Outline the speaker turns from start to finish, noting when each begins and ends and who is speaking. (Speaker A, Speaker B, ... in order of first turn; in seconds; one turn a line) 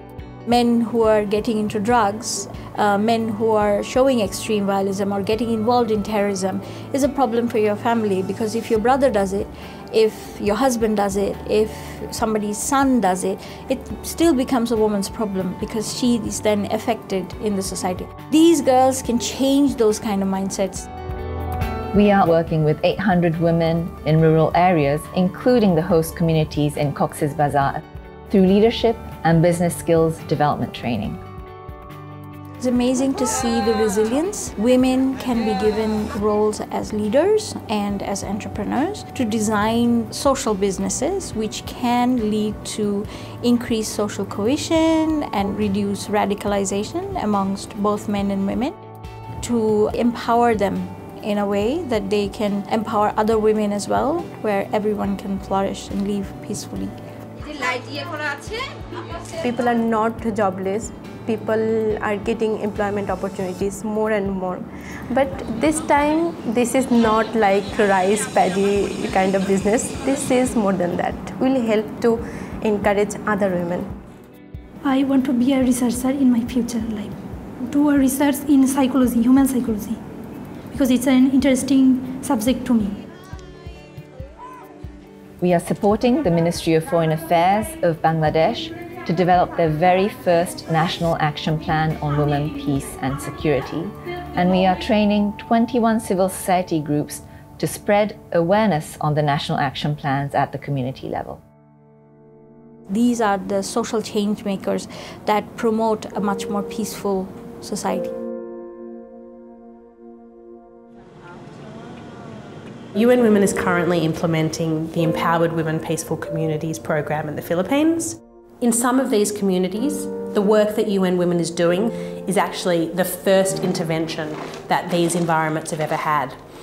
Speaker A: 0.5-20.9
Speaker B: 21.9-31.2
Speaker A: 32.6-48.8
Speaker A: 49.4-56.9
Speaker C: 59.4-73.9
Speaker D: 74.8-80.0
Speaker D: 80.7-83.0
Speaker B: 85.4-101.4
Speaker A: 102.9-108.1
Speaker E: 112.9-126.3